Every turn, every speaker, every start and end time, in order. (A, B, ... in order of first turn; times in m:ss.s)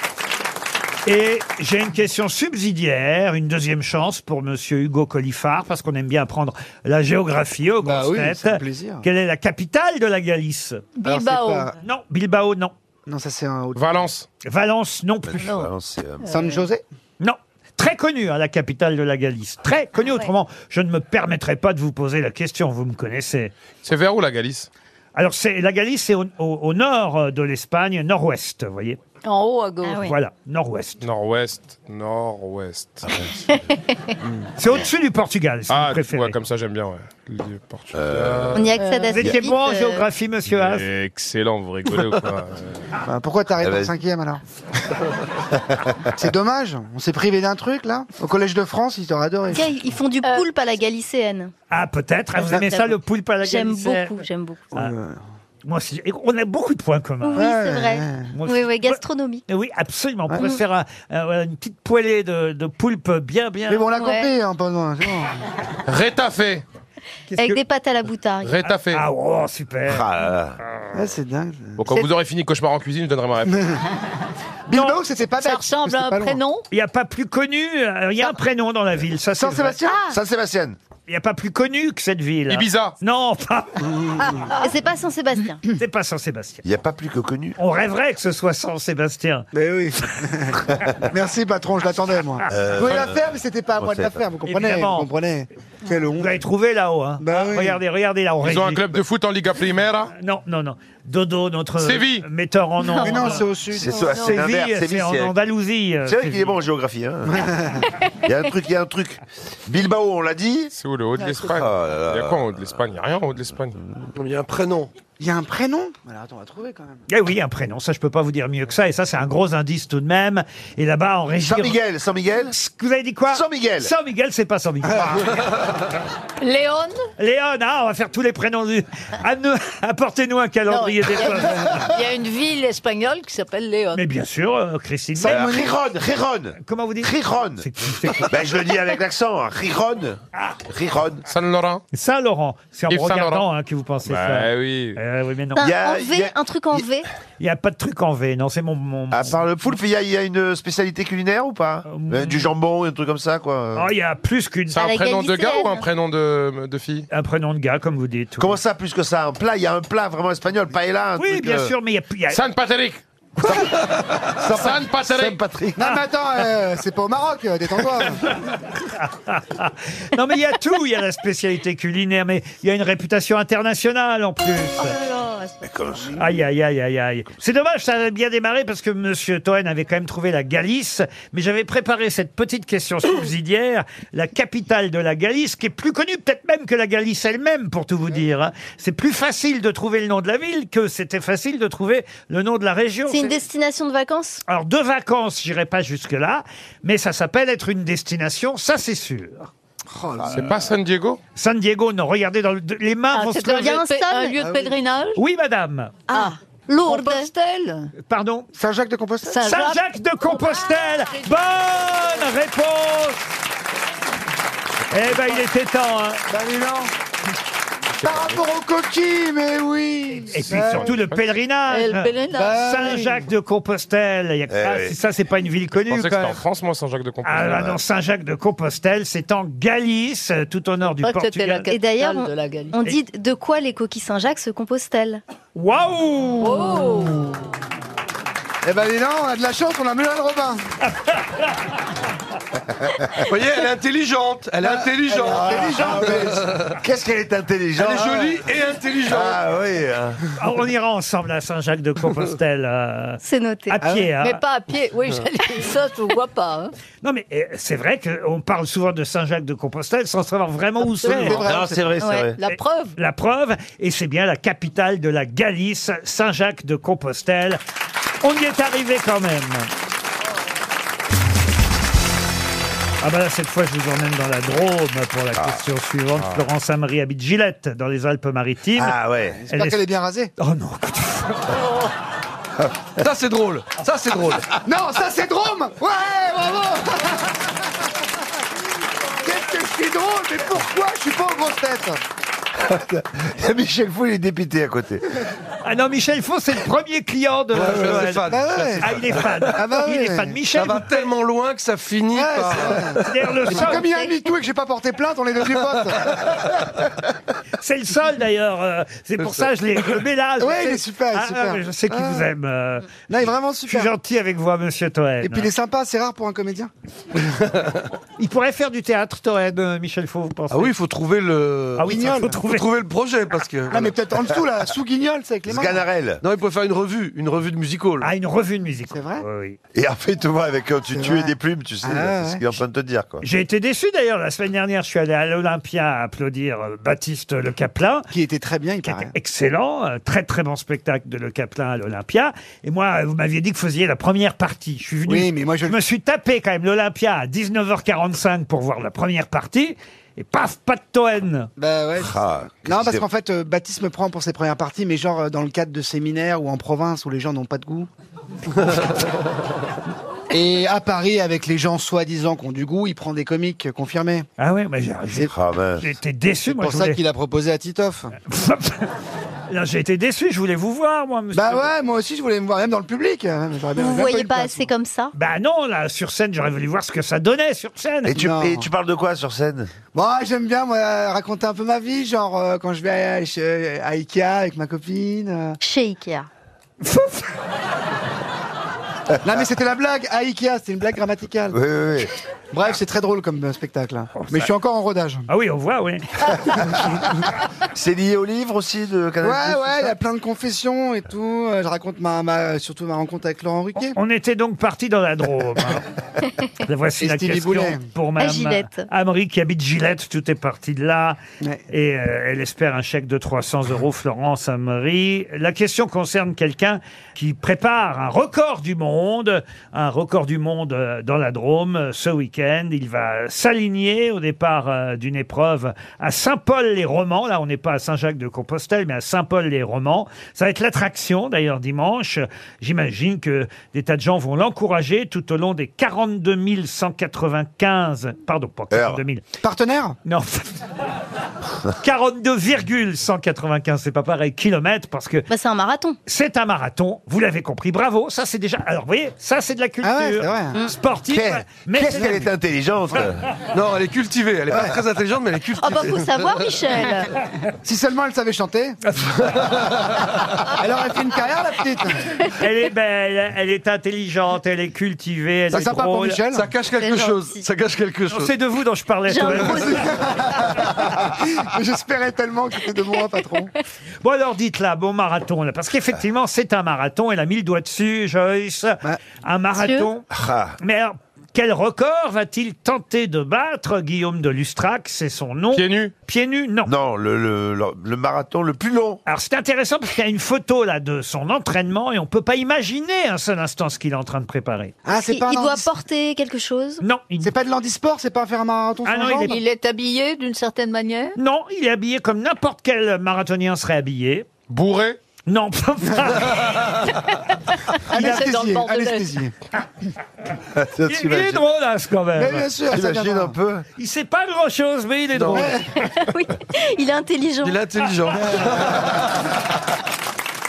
0:01.1-0:10.9 A
0:07.8-0:09.0 B
0:11.0-0:11.7 C
0:11.0-0:11.7 B
0:11.8-0:12.7 A
0:13.1-0:14.1 B
0:13.8-0:14.3 D
0:14.4-0:15.6 A
0:15.3-0:16.3 E
0:16.2-0:16.7 C
0:16.2-0:16.8 B
0:17.2-0:23.5 A
0:20.0-0:20.3 F
0:23.8-0:24.7 D
0:25.2-0:29.0 A
0:29.2-0:30.1 C
0:29.8-0:30.1 F
0:30.0-0:31.0 A
0:31.0-0:33.3 D
0:34.6-0:36.4 A
0:35.7-0:38.7 D
0:37.9-0:38.7 E
0:38.5-0:40.0 F
0:38.8-0:39.2 C
0:39.1-0:40.9 A
0:40.5-0:42.8 D
0:43.1-0:44.4 B
0:43.6-0:43.9 E
0:45.5-0:46.0 E
0:46.2-0:49.7 B
0:49.5-0:51.5 F
0:50.2-0:50.5 C
0:51.7-0:54.2 A
0:52.4-0:54.7 F
0:54.7-0:55.2 B
0:55.6-0:57.5 A
0:57.2-0:59.4 F
0:57.4-0:58.3 B
0:58.3-1:03.9 A
1:03.7-1:05.4 B
1:04.0-1:04.3 F
1:05.9-1:06.6 D
1:07.3-1:07.6 A
1:07.4-1:08.6 F
1:08.4-1:09.0 D
1:08.6-1:10.0 A
1:09.9-1:10.6 E
1:10.9-1:11.9 B
1:11.8-1:13.8 D
1:14.7-1:16.4 B
1:15.4-1:16.6 C
1:16.7-1:19.8 A
1:19.4-1:20.1 B
1:19.8-1:20.2 F
1:20.1-1:20.8 E
1:21.1-1:23.9 A
1:22.5-1:23.0 D
1:23.8-1:24.5 B
1:24.6-1:25.6 F
1:25.7-1:26.6 A
1:26.6-1:27.6 E
1:27.6-1:29.5 A
1:29.5-1:36.4 B
1:32.5-1:34.2 E
1:34.4-1:35.1 A
1:36.2-1:38.9 A
1:37.2-1:37.8 B
1:38.4-1:40.1 D
1:40.2-1:43.4 A
1:41.8-1:42.3 D
1:42.8-1:44.4 F
1:43.0-1:44.0 B
1:43.7-1:45.3 E
1:44.1-1:46.6 A
1:46.0-1:47.5 E
1:47.3-1:47.8 B
1:48.2-1:50.7 E
1:50.7-1:53.8 D
1:51.4-1:52.6 E
1:54.2-1:54.9 G
1:55.2-1:57.0 B
1:57.1-2:01.8 A
2:01.4-2:02.6 E
2:02.5-2:05.4 A
2:03.3-2:03.9 E
2:06.4-2:07.0 C
2:07.2-2:11.8 A
2:10.7-2:14.0 C
2:13.9-2:15.5 A
2:15.2-2:15.8 B
2:15.3-2:17.7 E
2:16.6-2:18.6 A
2:18.2-2:21.2 E
2:21.3-2:21.8 D
2:21.9-2:25.7 A
2:22.9-2:23.4 D
2:24.1-2:25.0 D
2:25.6-2:27.1 F
2:25.6-2:26.8 E
2:27.4-2:29.4 A
2:29.1-2:33.9 E
2:31.9-2:32.5 A
2:33.8-2:34.9 A
2:34.7-2:37.1 D
2:34.8-2:35.9 F
2:37.1-2:38.6 A
2:38.4-2:41.7 E
2:41.2-2:42.4 A
2:42.3-2:43.0 D
2:43.4-2:43.8 B
2:44.4-2:46.0 E
2:44.4-2:45.4 D
2:44.5-2:44.8 B
2:45.8-2:48.3 B
2:48.8-2:55.0 A
2:54.8-2:55.7 F
2:55.6-2:56.4 E
2:56.2-3:13.4 A
3:13.1-3:14.4 F
3:14.5-3:19.5 A
3:19.9-3:20.5 B
3:20.2-3:20.7 E
3:20.3-3:21.2 D
3:21.4-3:23.8 A
3:23.1-3:25.2 C
3:23.6-3:24.4 F
3:24.4-3:24.7 B
3:25.2-3:26.1 A
3:26.1-3:27.3 F
3:26.1-3:27.9 C
3:28.0-3:28.5 A
3:28.6-3:29.4 B
3:29.3-3:31.5 C
3:29.4-3:33.3 A
3:34.9-3:36.3 A
3:36.3-3:36.9 B
3:38.0-3:40.9 B
3:40.3-3:46.4 A
3:40.5-3:41.2 D
3:41.7-3:42.8 C
3:42.3-3:43.3 B
3:44.5-3:45.0 E
3:45.9-3:47.8 D
3:47.2-3:51.7 A
3:51.0-3:52.8 C
3:51.7-3:55.2 F
3:55.6-3:57.2 A
3:56.4-3:57.3 C
3:58.6-4:00.6 B
4:00.9-4:01.5 A
4:03.2-4:06.7 G
4:04.6-4:06.5 B
4:05.2-4:08.4 E
4:07.8-4:09.4 G
4:09.1-4:10.2 E
4:10.4-4:14.4 A
4:13.2-4:13.8 F
4:13.8-4:14.1 B
4:14.2-4:16.7 C
4:17.0-4:21.4 A
4:21.0-4:21.3 C
4:21.0-4:21.9 B
4:21.1-4:22.4 E
4:22.0-4:22.3 F
4:22.4-4:23.0 C
4:22.5-4:27.6 A
4:28.2-4:29.7 A
4:33.0-4:39.0 A
4:38.8-4:39.4 E
4:39.4-4:40.3 B
4:39.5-4:39.8 A
4:40.4-4:41.7 A
4:43.0-4:44.5 G
4:44.6-4:47.6 B
4:49.2-4:52.0 B
4:52.6-4:55.0 E
4:55.6-5:01.1 A
4:57.5-4:59.4 G
4:58.2-4:58.9 B
4:59.5-5:00.4 B
5:00.5-5:03.0 G
5:02.1-5:06.4 B
5:03.0-5:03.9 A
5:03.8-5:04.1 F
5:07.6-5:13.0 A
5:10.4-5:12.3 B
5:13.1-5:13.9 B
5:13.7-5:15.5 A
5:15.2-5:16.7 B
5:17.3-5:17.8 G
5:18.2-5:20.7 A
5:20.5-5:24.0 G
5:21.8-5:22.6 A
5:21.8-5:22.4 B
5:23.7-5:25.8 B
5:25.5-5:26.2 E
5:26.2-5:28.1 G
5:28.0-5:29.6 A
5:28.9-5:29.2 B
5:29.7-5:33.2 E
5:30.9-5:32.5 B
5:33.2-5:38.1 A
5:38.1-5:39.1 B
5:38.8-5:51.5 A
5:45.1-5:45.8 B
5:51.6-5:57.9 B
5:52.0-5:53.1 E
6:00.3-6:04.3 B
6:04.4-6:07.0 A
6:05.3-6:05.8 E
6:06.5-6:08.1 B
6:08.3-6:08.9 A
6:09.5-6:11.7 A
6:11.3-6:14.7 B
6:13.8-6:15.1 F
6:15.1-6:18.2 A
6:18.1-6:19.7 E
6:18.1-6:18.7 B
6:19.9-6:25.6 B
6:25.6-6:26.3 F
6:26.8-6:27.3 A
6:29.2-6:31.6 B
6:31.5-6:32.1 E
6:32.5-6:35.3 B
6:34.2-6:34.5 A
6:35.3-6:36.5 A
6:36.6-6:37.2 B
6:37.7-6:40.0 E
6:39.2-6:44.0 B
6:43.9-6:45.9 A
6:46.6-6:51.2 A
6:47.0-6:47.8 B
6:48.2-6:48.9 F
6:51.7-7:19.2 A
7:18.7-7:19.0 E
7:19.4-7:20.0 B
7:20.0-7:20.6 A
7:21.8-7:25.3 A
7:25.3-7:26.0 F
7:26.1-7:32.3 A
7:29.8-7:30.6 B
7:31.1-7:33.2 E
7:33.5-7:36.4 G
7:34.5-7:34.8 B
7:35.6-7:37.1 F
7:37.6-7:38.8 B
7:39.2-7:40.0 G
7:40.5-7:42.2 B
7:42.4-7:46.2 A
7:45.5-7:46.5 B
7:46.3-7:48.3 G
7:46.8-7:47.4 F
7:48.1-7:49.9 A
7:49.1-7:50.0 F
7:49.5-7:53.5 B
7:54.0-8:00.1 A
7:59.6-7:59.9 F
8:00.1-8:00.6 E
8:00.6-8:06.7 A
8:05.5-8:05.9 D
8:06.7-8:09.0 E
8:09.1-8:14.8 A
8:14.9-8:15.7 B
8:14.9-8:16.8 F
8:16.8-8:17.3 A
8:17.2-8:19.4 B
8:18.8-8:19.4 A
8:19.2-8:21.2 C
8:21.2-8:24.3 A
8:24.5-8:25.0 D
8:25.3-8:26.9 A
8:27.8-8:29.3 B
8:27.9-8:29.2 C
8:30.5-8:31.4 E
8:30.8-8:32.5 A
8:32.2-8:33.4 B
8:32.7-8:33.6 E
8:33.8-8:35.6 A
8:35.3-8:35.7 B
8:35.8-8:37.7 F
8:37.4-8:38.9 G
8:38.2-8:38.9 B